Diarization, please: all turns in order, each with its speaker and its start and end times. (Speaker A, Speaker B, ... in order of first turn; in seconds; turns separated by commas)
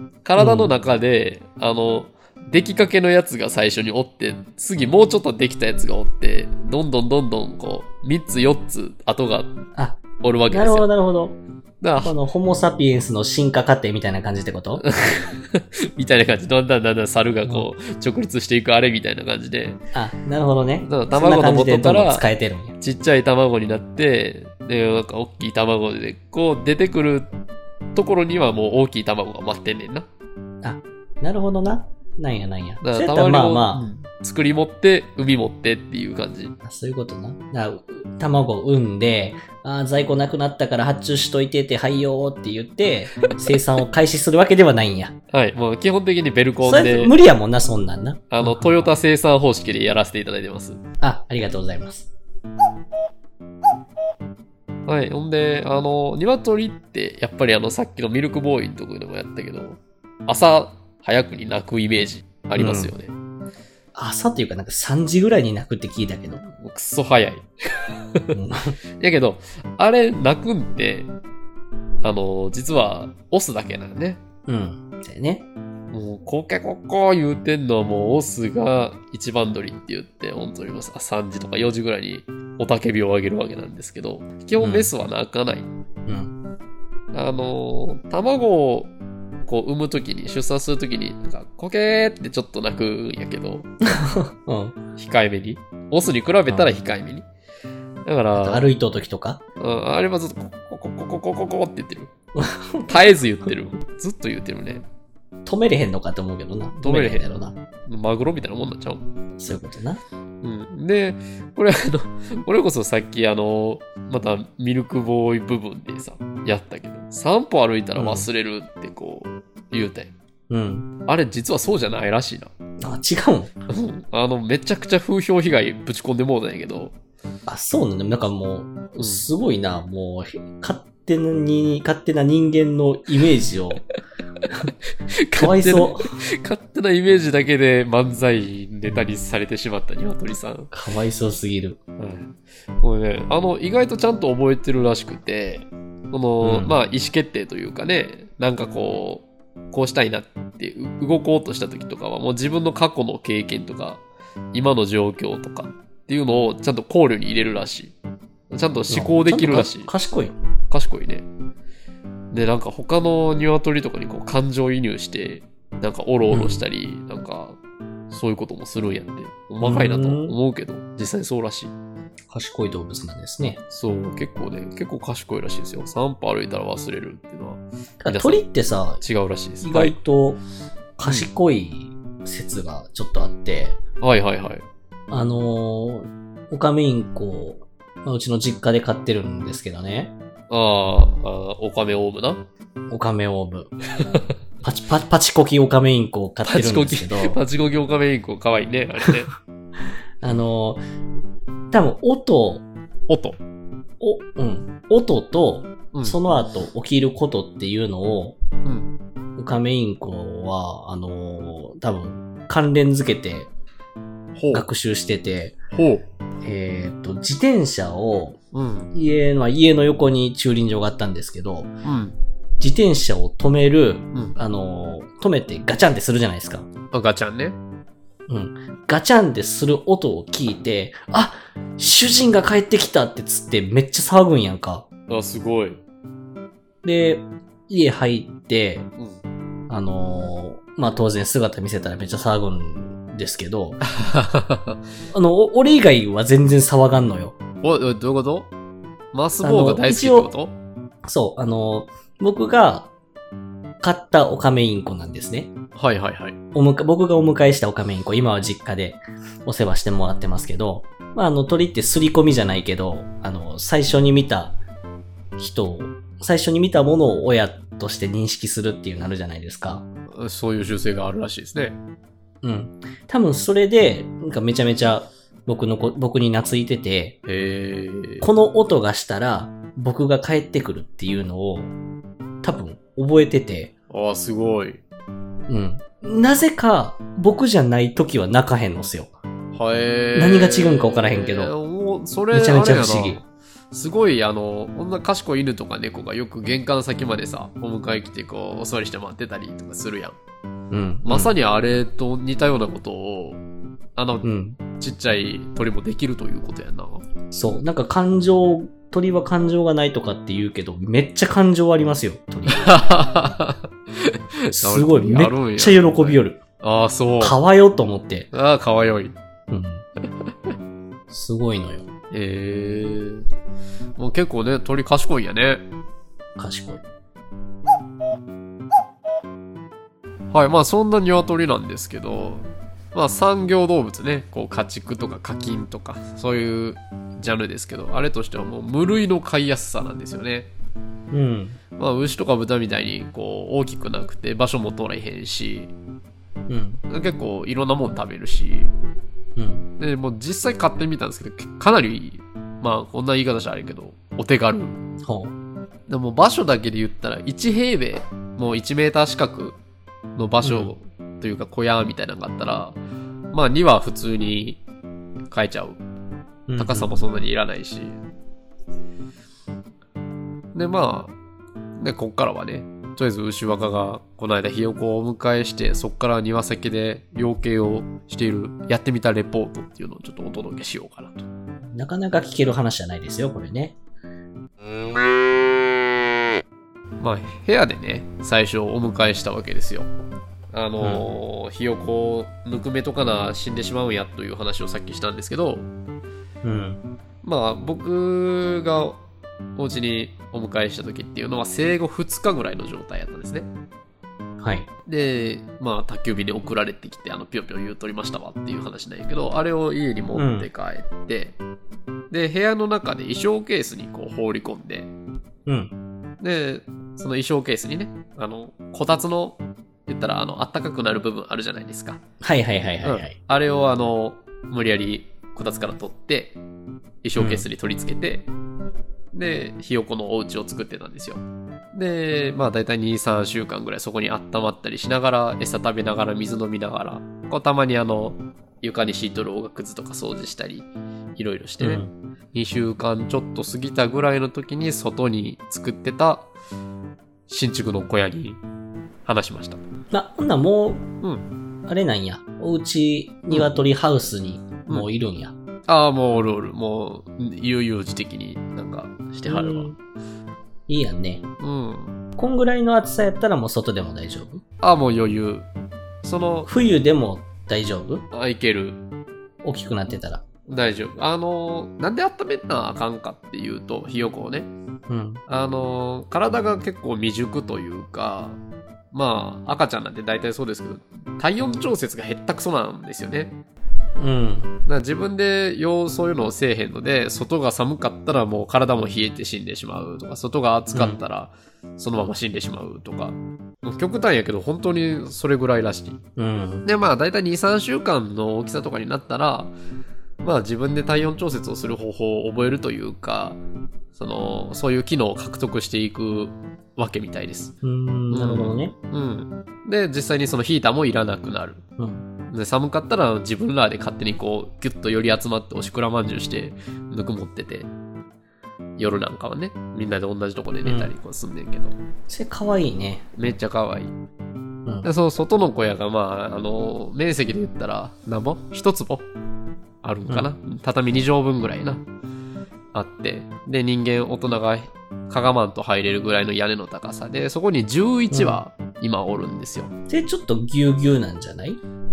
Speaker A: 0.2-9.6, Speaker B: 0.4-0.7, Speaker B: 9.8-11.4, Speaker A: 10.2-10.9, Speaker A: 11.8-12.2, Speaker B: 12.0-14.8, Speaker A: 14.8-19.8, Speaker B: 19.9-22.7, Speaker A: 20.8-22.3, Speaker A: 22.8-27.3, Speaker A: 27.9-30.1, Speaker B: 30.6-33.9, Speaker A: 32.8-36.6, Speaker B: 36.6-45.2, Speaker A: 45.3-47.1, Speaker B: 46.6-48.9, Speaker A: 48.3-50.8, Speaker B: 51.0-52.1, Speaker A: 54.9-63.1, Speaker B: 62.6-62.9, Speaker B: 64.0-66.5, Speaker A: 66.5-68.4, Speaker B: 68.3-68.8, Speaker A: 69.0-71.1, Speaker A: 72.0-74.2, Speaker B: 74.5-75.5, Speaker A: 75.9-85.7, Speaker B: 84.6-84.9, Speaker B: 86.1-86.4, Speaker A: 87.1-88.9, Speaker A: 89.5-93.7, Speaker B: 94.0-94.8, Speaker A: 95.0-97.3, Speaker A: 98.0-98.7, Speaker B: 98.4-99.4, Speaker A: 99.6-102.1, Speaker B: 102.3-103.1, Speaker A: 102.9-104.8, Speaker B: 105.5-107.5, Speaker A: 106.8-109.1, Speaker B: 109.4-110.0, Speaker A: 110.4-120.1, Speaker B: 118.0-118.3, Speaker B: 120.5-120.9, Speaker A: 121.1-122.5, Speaker B: 122.8-123.5, Speaker A: 123.7-126.9, Speaker B: 127.5-133.8, Speaker A: 129.0-129.2, Speaker A: 135.1-140.7, Speaker B: 135.4-136.1, Speaker B: 140.7-141.8, Speaker A: 142.0-154.0, Speaker B: 146.4-146.8, Speaker A: 154.5-157.9, Speaker A: 158.5-159.9, Speaker B: 158.9-160.3, Speaker A: 160.7-161.2, Speaker A: 162.3-167.6, Speaker B: 166.3-166.6, Speaker A: 168.1-171.7, Speaker B: 169.6-170.3, Speaker B: 172.3-173.6, Speaker A: 173.7-178.4, Speaker B: 178.0-179.0, Speaker A: 179.0-180.0, Speaker B: 179.6-180.4, Speaker B: 181.0-183.8, Speaker A: 181.0-181.3, Speaker A: 184.0-184.6, Speaker B: 185.1-190.1, Speaker A: 190.5-192.4, Speaker B: 192.9-197.4, Speaker A: 196.5-199.3, Speaker B: 200.2-200.8, Speaker B: 201.7-202.7, Speaker A: 203.1-203.4, Speaker B: 204.0-208.4, Speaker A: 205.9-206.2, Speaker A: 208.6-208.9, Speaker B: 209.4-213.5, Speaker A: 214.3-214.7, Speaker B: 214.5-215.6, Speaker A: 215.7-216.0, Speaker B: 216.4-218.4, Speaker A: 218.5-218.9, Speaker B: 218.9-221.7, Speaker A: 221.8-222.2, Speaker B: 222.6-226.7, Speaker A: 226.9-227.6, Speaker B: 228.3-234.8, Speaker A: 235.1-235.8, Speaker B: 236.8-238.9, Speaker B: 239.7-243.8, Speaker A: 243.8-244.8, Speaker B: 245.1-247.4, Speaker A: 247.6-248.5, Speaker A: 249.1-250.5, Speaker B: 249.4-250.3, Speaker B: 251.0-252.9, Speaker B: 253.8-255.5, Speaker A: 255.8-256.4, Speaker B: 256.5-264.6, Speaker B: 265.4-269.9, Speaker A: 270.1-271.8, Speaker B: 272.4-277.2, Speaker A: 277.3-278.3, Speaker B: 278.2-281.7, Speaker B: 282.4-283.7, Speaker A: 283.9-284.8, Speaker B: 285.5-289.1, Speaker A: 289.6-300.2, Speaker B: 290.1-291.5, Speaker B: 292.3-293.2, Speaker B: 300.7-301.4, Speaker A: 301.1-303.4, Speaker A: 304.0-307.0, Speaker B: 304.2-304.6, Speaker B: 307.3-312.8, Speaker A: 312.5-317.4, Speaker B: 314.5-316.4, Speaker B: 317.2-318.3, Speaker A: 318.3-319.2, Speaker B: 319.5-319.8, Speaker A: 320.3-320.5, Speaker B: 321.1-321.9, Speaker A: 322.1-323.3, Speaker A: 324.0-325.6, Speaker B: 326.4-326.8, Speaker A: 330.3-340.5, Speaker B: 341.1-341.6, Speaker A: 341.8-345.7, Speaker B: 346.5-346.8, Speaker A: 346.9-348.7, Speaker B: 349.4-349.7, Speaker A: 349.8-354.8, Speaker B: 354.9-355.3, Speaker A: 355.9-359.6, Speaker A: 360.2-362.8, Speaker B: 360.4-360.7, Speaker A: 363.3-364.6, Speaker A: 365.3-365.8, Speaker B: 366.5-367.1, Speaker A: 366.6-368.0, Speaker A: 370.5-371.1, Speaker A: 371.8-381.3, Speaker B: 381.7-383.8, Speaker A: 387.0-389.9, Speaker A: 390.5-395.7, Speaker B: 390.8-391.1, Speaker B: 396.4-396.8, Speaker A: 397.2-399.0, Speaker A: 399.6-403.5, Speaker B: 404.4-404.7, Speaker A: 404.9-411.4, Speaker B: 410.1-410.5, Speaker A: 412.1-414.9, Speaker B: 415.5-415.7, Speaker A: 416.2-422.0, Speaker B: 422.2-423.1, Speaker A: 422.8-426.4, Speaker A: 427.0-428.3, Speaker B: 427.2-427.5, Speaker A: 429.1-446.3, Speaker B: 441.6-441.9, Speaker A: 447.3-448.4, Speaker A: 449.1-449.6, Speaker B: 449.9-450.9, Speaker B: 451.7-455.3, Speaker A: 453.3-453.6, Speaker A: 455.7-459.7, Speaker B: 459.3-459.8, Speaker B: 460.7-461.2, Speaker A: 461.4-462.0, Speaker B: 462.2-464.4, Speaker A: 464.6-465.5, Speaker A: 466.0-466.5, Speaker B: 466.5-468.1, Speaker A: 468.1-468.8, Speaker B: 469.4-470.2, Speaker A: 470.5-474.5, Speaker B: 474.9-475.2, Speaker A: 475.3-478.4, Speaker A: 478.9-483.4, Speaker B: 484.0-484.5, Speaker A: 484.7-496.0, Speaker B: 490.7-491.0, Speaker B: 496.2-496.7, Speaker A: 496.6-499.5, Speaker A: 500.2-503.4, Speaker A: 503.9-507.5, Speaker B: 507.6-508.7, Speaker A: 508.1-511.6, Speaker B: 511.8-512.0, Speaker A: 512.3-517.7, Speaker A: 518.8-521.8, Speaker B: 520.6-520.9, Speaker B: 522.1-523.0, Speaker A: 523.2-523.9, Speaker A: 524.8-529.0, Speaker A: 529.8-531.8, Speaker A: 532.7-539.7, Speaker B: 538.1-538.4, Speaker B: 539.9-541.6